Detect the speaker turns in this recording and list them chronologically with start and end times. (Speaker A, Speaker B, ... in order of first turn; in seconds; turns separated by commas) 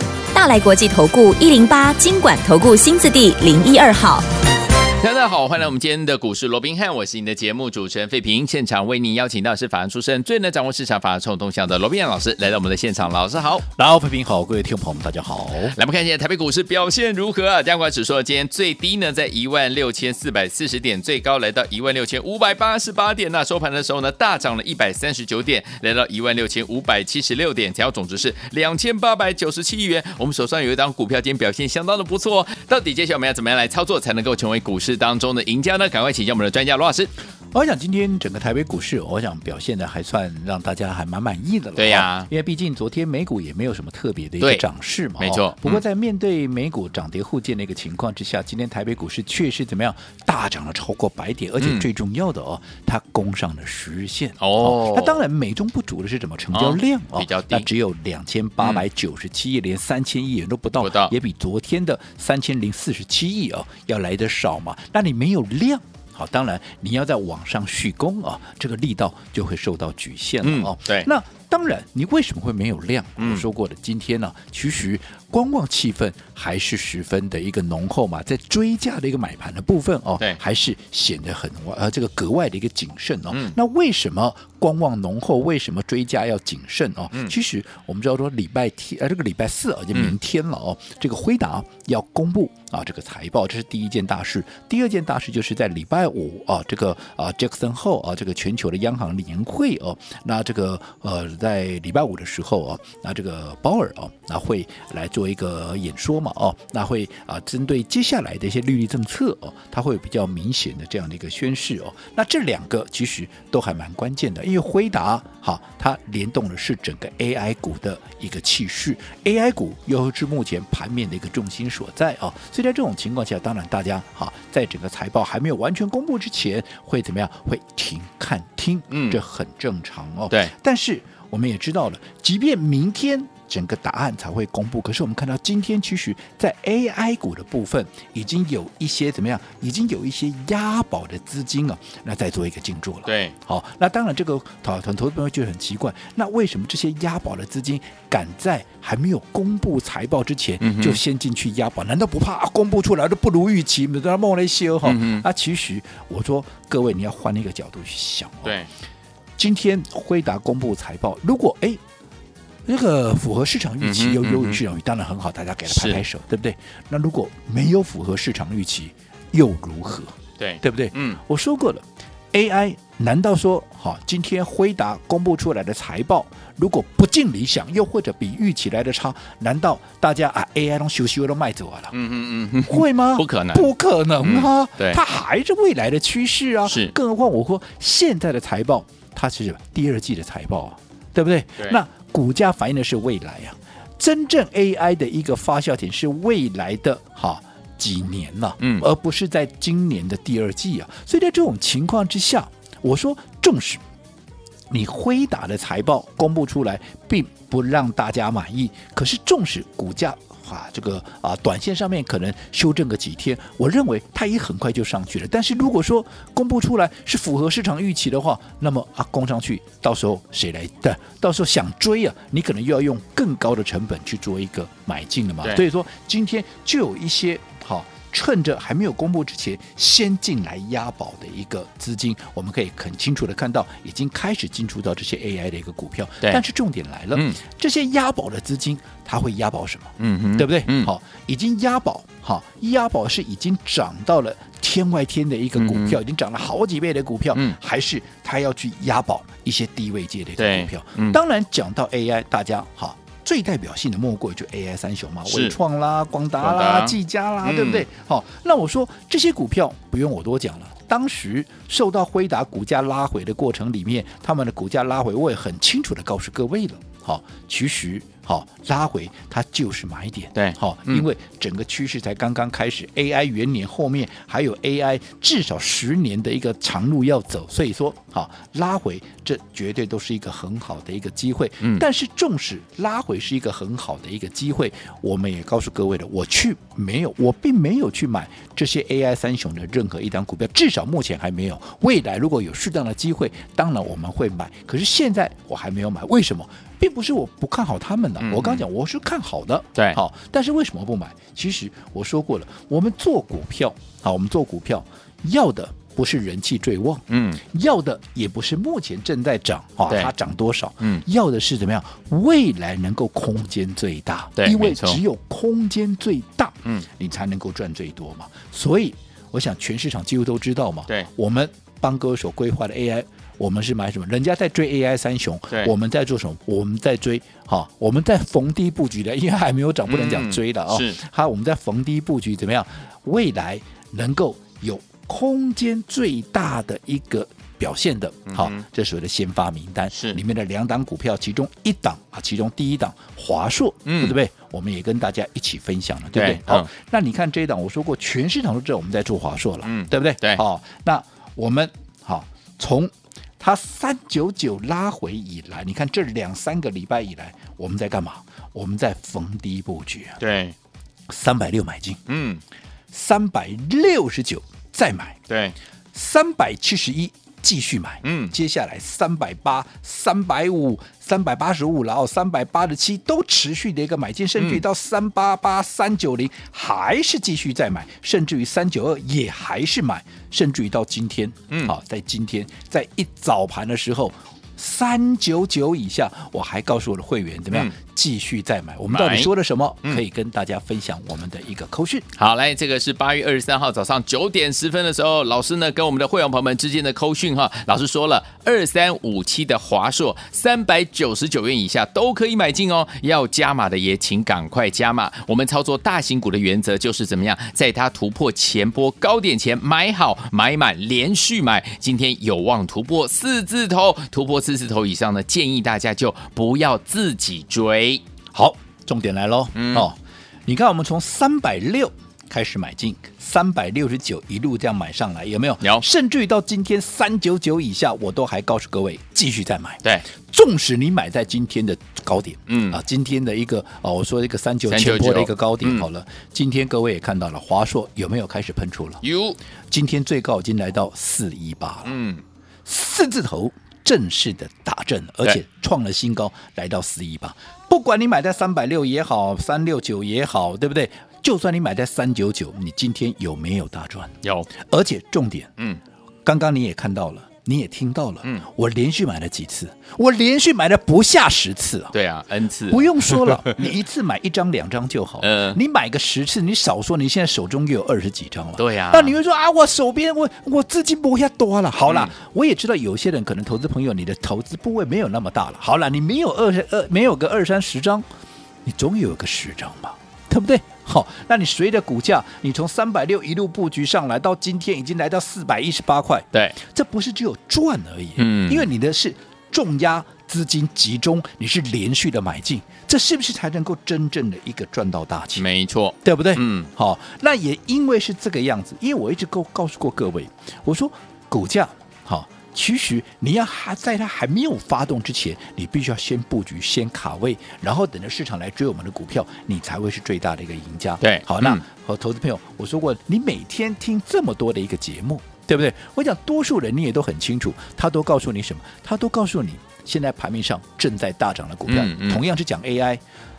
Speaker A: 0.3-4.3, Speaker B: 5.0-13.6, Speaker C: 13.7-15.7, Speaker B: 15.7-37.1, Speaker C: 37.5-158.6, Speaker B: 41.8-42.3, Speaker B: 44.4-44.6, Speaker B: 45.2-45.8, Speaker B: 51.6-51.9, Speaker B: 54.4-55.2, Speaker B: 56.5-57.7, Speaker B: 58.6-58.8, Speaker B: 60.8-61.1, Speaker B: 70.4-71.1, Speaker B: 73.2-73.5, Speaker B: 83.3-83.6, Speaker B: 128.9-129.2, Speaker B: 143.1-143.3, Speaker B: 150.6-151.0, Speaker B: 154.8-155.2, Speaker C: 159.4-161.8, Speaker C: 162.7-182.0, Speaker B: 163.8-164.6, Speaker B: 165.7-166.0, Speaker B: 170.4-171.2, Speaker B: 181.9-185.0, Speaker C: 182.7-203.8, Speaker B: 186.7-186.9, Speaker B: 198.6-198.8, Speaker C: 204.7-360.2, Speaker B: 240.0-240.9, Speaker B: 245.6-246.0, Speaker B: 250.4-251.2, Speaker B: 255.3-255.6, Speaker B: 256.4-257.9, Speaker B: 270.4-271.1, Speaker B: 298.2-298.7, Speaker B: 307.1-307.4, Speaker B: 314.4-315.0, Speaker B: 329.9-331.0, Speaker B: 338.3-338.6, Speaker B: 339.9-340.2, Speaker B: 343.9-344.2, Speaker B: 346.1-346.7, Speaker B: 349.6-350.4, Speaker B: 360.2-360.6, Speaker C: 361.1-362.0, Speaker B: 362.1-362.4, Speaker C: 362.9-365.2, Speaker B: 365.3-365.6, Speaker C: 365.9-392.1, Speaker B: 368.0-368.3, Speaker B: 374.4-374.6, Speaker B: 388.9-389.3, Speaker B: 392.2-418.0, Speaker C: 418.3-439.0, Speaker B: 419.6-419.9, Speaker B: 432.5-432.8, Speaker B: 434.7-435.9, Speaker B: 439.0-439.4, Speaker C: 439.7-441.9, Speaker B: 441.9-442.2, Speaker C: 442.6-455.5, Speaker B: 454.2-454.5, Speaker C: 456.2-462.0, Speaker B: 461.9-463.7, Speaker C: 462.7-478.1, Speaker B: 465.2-465.6, Speaker B: 468.6-469.1, Speaker C: 478.6-495.5, Speaker B: 488.2-488.7, Speaker B: 495.4-496.7, Speaker C: 496.0-523.0, Speaker B: 511.0-511.6, Speaker B: 521.7-522.2